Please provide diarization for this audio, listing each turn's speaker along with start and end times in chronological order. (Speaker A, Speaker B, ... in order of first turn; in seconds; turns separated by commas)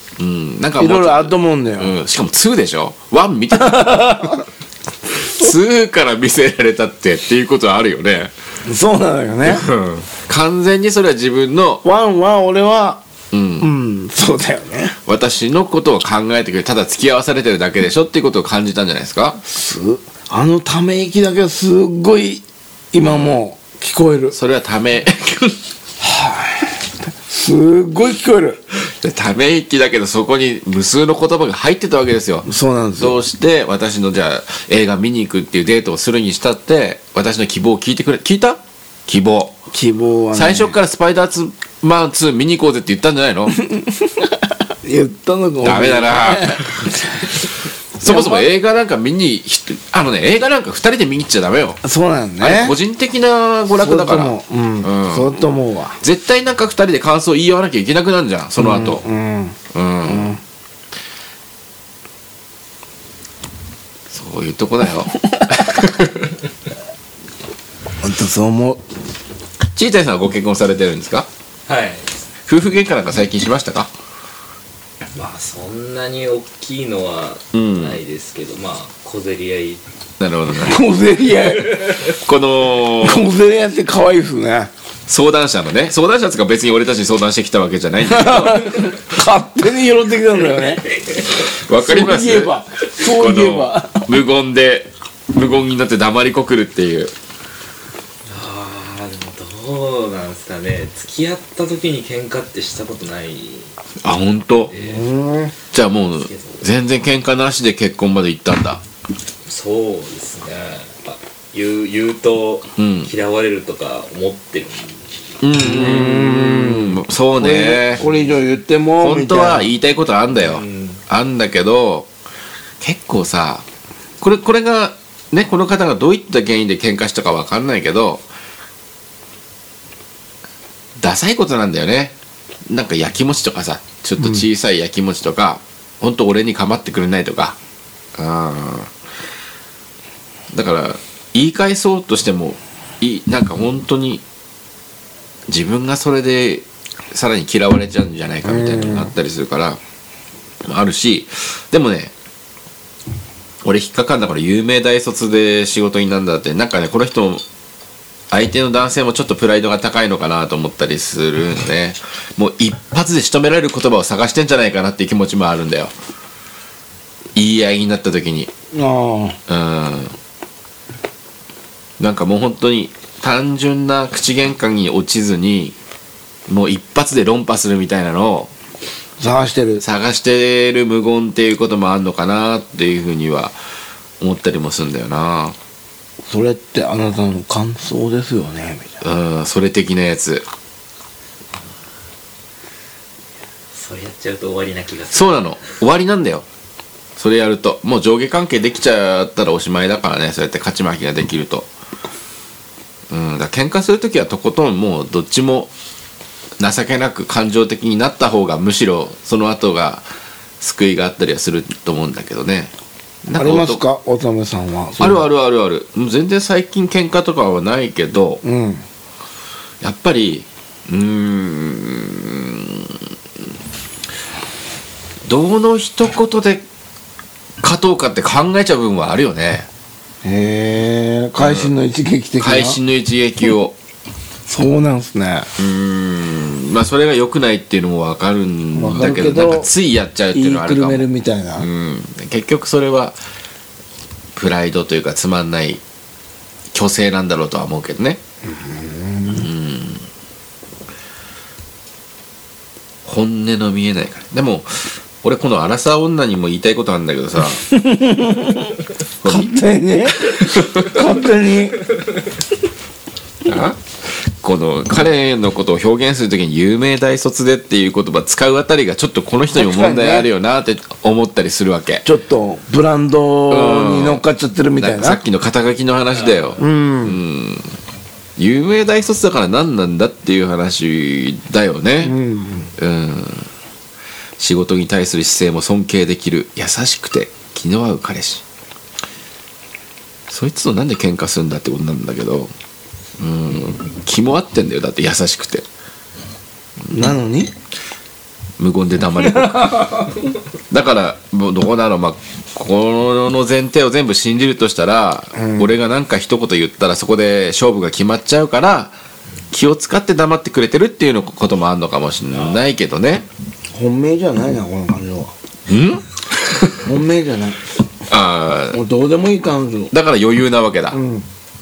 Speaker A: 0.2-4.4, Speaker B: 0.8-1.9, Speaker B: 3.5-4.5, Speaker A: 5.1-8.3, Speaker B: 8.7-9.7, Speaker A: 9.4-11.8, Speaker B: 11.8-13.0, Speaker A: 13.3-13.7, Speaker B: 13.6-15.0, Speaker A: 15.1-19.4, Speaker B: 19.4-24.4, Speaker A: 24.3-25.6, Speaker B: 26.0-28.6, Speaker A: 29.0-39.6, Speaker B: 32.5-33.2, Speaker B: 39.7-40.8, Speaker A: 40.3-43.6, Speaker B: 43.6-47.4, Speaker A: 45.6-47.0, Speaker A: 48.0-51.8, Speaker B: 48.0-48.5, Speaker B: 51.8-52.8, Speaker A: 52.4-55.3, Speaker B: 53.7-56.0, Speaker A: 56.0-59.0, Speaker B: 58.6-60.4, Speaker A: 59.7-60.4, Speaker A: 64.1-66.4, Speaker B: 65.3-65.9, Speaker B: 68.0-68.8, Speaker A: 69.7-71.3, Speaker C: 71.7-72.1, Speaker A: 72.5-73.9, Speaker C: 75.1-79.8, Speaker A: 77.5-78.0, Speaker A: 80.2-80.8, Speaker B: 80.5-81.9, Speaker C: 81.4-82.0, Speaker A: 82.1-83.2, Speaker B: 83.0-84.7, Speaker A: 85.1-88.9, Speaker B: 88.0-90.8, Speaker C: 90.5-91.3, Speaker A: 91.3-97.1, Speaker B: 91.7-94.1, Speaker C: 98.3-103.7, Speaker A: 104.0-104.7, Speaker C: 104.7-105.0, Speaker B: 104.8-105.5, Speaker A: 105.7-108.8, Speaker C: 106.3-106.7, Speaker C: 109.5-115.1, Speaker A: 112.8-113.1, Speaker A: 115.4-118.0, Speaker B: 115.5-119.7, Speaker A: 119.0-122.1, Speaker C: 120.4-121.0, Speaker A: 122.8-123.6, Speaker A: 124.2-128.2, Speaker A: 131.0-132.2, Speaker A: 132.7-137.6, Speaker B: 134.2-134.4, Speaker A: 138.2-138.9, Speaker A: 140.5-144.2, Speaker A: 145.5-149.8, Speaker B: 148.5-149.1, Speaker A: 150.6-152.1, Speaker A: 153.7-157.4, Speaker A: 158.3-165.9, Speaker A: 167.4-168.5, Speaker B: 168.7-169.4, Speaker A: 169.5-170.2, Speaker A: 172.0-175.8, Speaker A: 176.5-178.5, Speaker B: 179.2-179.8, Speaker A: 179.8-183.6, Speaker A: 184.2-185.6, Speaker B: 186.3-189.0, Speaker A: 189.0-190.4, Speaker C: 193.7-195.6, Speaker A: 195.1-196.5, Speaker A: 197.2-201.7, Speaker A: 203.1-205.7, Speaker A: 206.6-210.1, Speaker A: 210.6-212.7, Speaker A: 213.3-213.8, Speaker B: 213.3-215.3, Speaker A: 215.0-218.4, Speaker B: 218.4-218.8, Speaker A: 219.8-223.0, Speaker A: 225.3-226.7, Speaker A: 227.6-229.7, Speaker B: 230.2-232.8, Speaker A: 231.4-231.7, Speaker A: 232.4-233.8, Speaker B: 234.5-235.5, Speaker A: 235.6-241.1, Speaker B: 238.8-239.7, Speaker B: 240.3-241.7, Speaker A: 241.6-243.2, Speaker A: 244.4-245.8, Speaker A: 246.7-248.2, Speaker B: 248.5-249.5, Speaker A: 249.3-250.1, Speaker A: 253.1-257.7, Speaker B: 257.7-261.8, Speaker A: 259.2-259.6, Speaker A: 260.2-261.0, Speaker A: 263.4-272.1, Speaker B: 269.5-270.3, Speaker B: 272.1-275.2, Speaker A: 273.5-274.2, Speaker A: 274.8-277.7, Speaker B: 276.6-277.2, Speaker A: 278.4-282.2, Speaker B: 282.0-282.7, Speaker A: 282.8-283.5, Speaker A: 284.4-288.4, Speaker A: 290.3-292.5, Speaker A: 293.2-295.6, Speaker B: 296.9-297.5, Speaker A: 298.6-300.1, Speaker B: 299.1-300.2, Speaker A: 300.7-309.0, Speaker B: 305.4-305.7, Speaker A: 309.5-313.3, Speaker B: 313.7-315.3, Speaker A: 315.7-316.8, Speaker B: 316.8-317.6, Speaker A: 318.1-318.8, Speaker B: 318.7-319.9, Speaker A: 319.9-321.0, Speaker B: 320.9-321.3